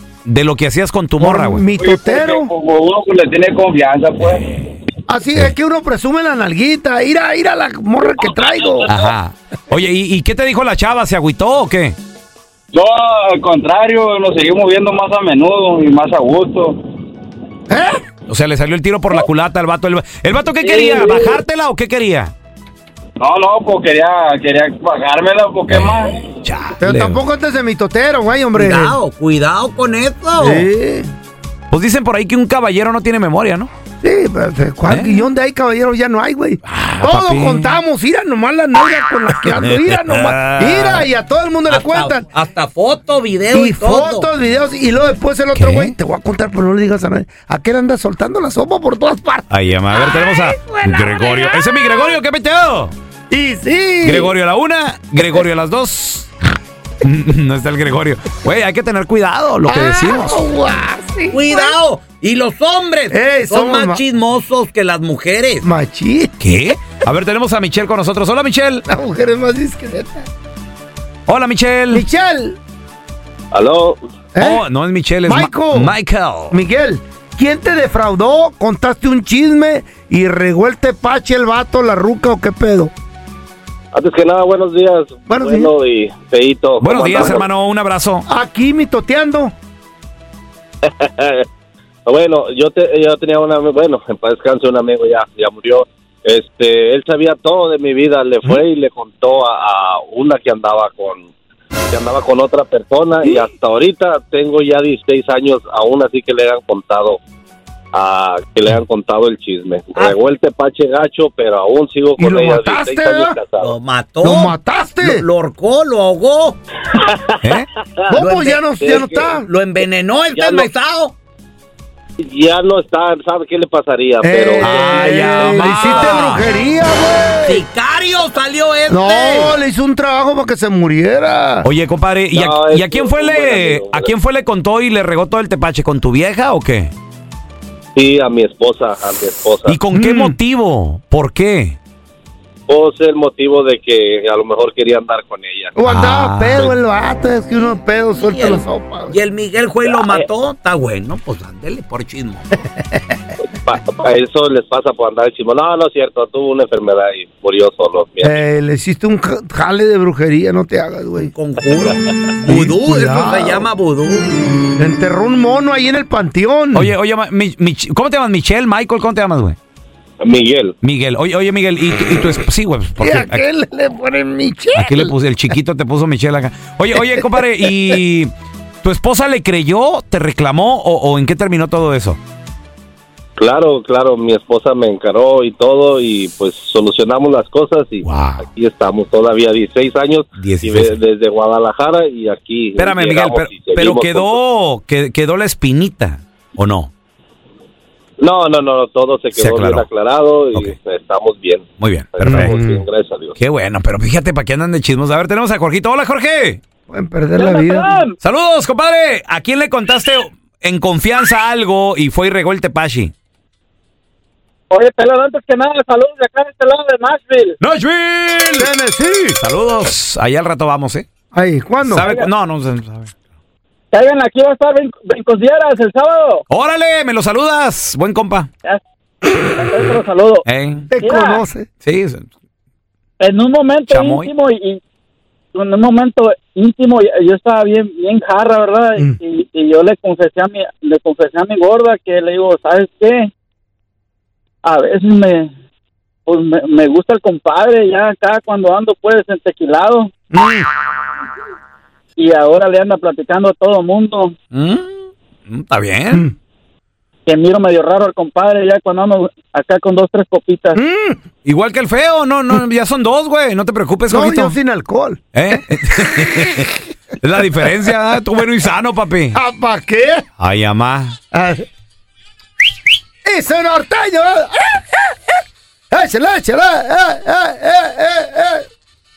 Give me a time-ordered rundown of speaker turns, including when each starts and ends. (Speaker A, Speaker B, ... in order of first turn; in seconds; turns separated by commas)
Speaker A: 0.2-1.6, Speaker B: 1.2-2.5, Speaker C: 1.8-4.4, Speaker A: 4.3-4.7, Speaker B: 5.1-8.9, Speaker C: 8.3-9.0, Speaker A: 8.9-11.9, Speaker C: 12.7-16.8, Speaker B: 17.7-18.0, Speaker A: 18.3-22.3, Speaker C: 20.6-21.4, Speaker C: 23.2-26.2, Speaker A: 25.7-27.2, Speaker B: 26.8-29.0, Speaker D: 28.5-30.7, Speaker B: 30.4-31.1, Speaker A: 31.7-33.7, Speaker B: 34.0-42.3, Speaker A: 34.9-35.3, Speaker A: 36.6-37.8, Speaker A: 39.5-41.0, Speaker D: 41.7-44.3, Speaker B: 43.5-52.1, Speaker A: 45.5-45.9, Speaker A: 49.5-52.9, Speaker B: 53.3-54.3, Speaker A: 54.0-56.3, Speaker A: 57.0-60.4, Speaker B: 59.6-61.7, Speaker D: 61.3-65.6, Speaker B: 63.1-64.0, Speaker B: 65.6-66.3, Speaker A: 66.4-68.8, Speaker B: 68.9-70.3, Speaker A: 71.3-72.0, Speaker B: 71.9-72.6, Speaker E: 73.5-74.0, Speaker B: 74.3-74.6, Speaker A: 74.4-76.6, Speaker B: 75.2-75.9, Speaker B: 76.5-82.9, Speaker E: 83.9-87.5, Speaker B: 85.3-85.7, Speaker A: 86.8-88.2, Speaker B: 88.3-89.5, Speaker E: 90.8-91.5, Speaker E: 92.0-101.3, Speaker E: 101.9-107.2, Speaker E: 107.9-113.7, Speaker B: 112.2-113.4, Speaker D: 113.6-116.6, Speaker B: 114.2-115.2, Speaker E: 117.0-117.3, Speaker A: 117.4-117.7, Speaker B: 118.1-119.5, Speaker D: 118.1-118.6, Speaker E: 118.8-119.4, Speaker D: 119.4-121.1, Speaker E: 120.3-120.7, Speaker E: 122.2-125.9, Speaker B: 124.2-127.6, Speaker A: 124.6-126.4, Speaker D: 127.4-129.5, Speaker B: 128.9-131.7, Speaker A: 131.6-136.9, Speaker E: 132.3-134.1, Speaker E: 137.9-139.8, Speaker A: 139.7-141.8, Speaker B: 139.9-140.3, Speaker E: 142.7-145.7, Speaker B: 145.8-149.2, Speaker A: 145.8-146.7, Speaker D: 148.2-152.4, Speaker E: 153.6-158.4, Speaker B: 158.2-161.3, Speaker D: 161.2-164.3, Speaker B: 162.4-163.7, Speaker B: 164.8-166.9, Speaker A: 166.7-169.6, Speaker E: 170.2-170.7, Speaker A: 170.8-173.4, Speaker B: 173.0-175.1, Speaker A: 174.7-178.3, Speaker B: 177.1-177.7, Speaker A: 178.8-182.2, Speaker E: 183.4-194.4, Speaker A: 188.0-188.4, Speaker A: 190.4-190.9, Speaker A: 192.8-196.9, Speaker E: 198.2-203.3, Speaker A: 199.3-199.8, Speaker A: 201.8-202.5, Speaker B: 202.2-202.8, Speaker A: 203.4-206.6, Speaker B: 206.9-208.0, Speaker F: 207.4-208.1, Speaker A: 208.2-213.1, Speaker F: 214.7-217.6, Speaker A: 217.6-218.7, Speaker B: 218.6-219.4, Speaker A: 219.4-221.1, Speaker B: 221.3-222.1, Speaker A: 221.8-223.1, Speaker F: 222.0-222.3, Speaker F: 223.9-226.4, Speaker A: 226.5-228.5, Speaker F: 229.3-230.4, Speaker A: 230.4-230.9, Speaker B: 230.9-231.7, Speaker F: 231.0-231.4, Speaker A: 231.8-232.3, Speaker F: 233.2-234.8, Speaker A: 233.9-234.3, Speaker F: 235.5-243.3, Speaker F: 244.6-245.5, Speaker F: 246.3-250.1, Speaker B: 250.3-250.7, Speaker F: 252.2-254.3, Speaker A: 254.5-256.3, Speaker F: 257.2-260.8, Speaker B: 260.7-261.2, Speaker A: 261.4-264.6, Speaker B: 264.1-265.2, Speaker A: 265.3-269.4, Speaker B: 269.3-270.2, Speaker A: 270.4-271.2, Speaker B: 271.3-271.6, Speaker B: 273.2-275.3, Speaker B: 275.9-278.7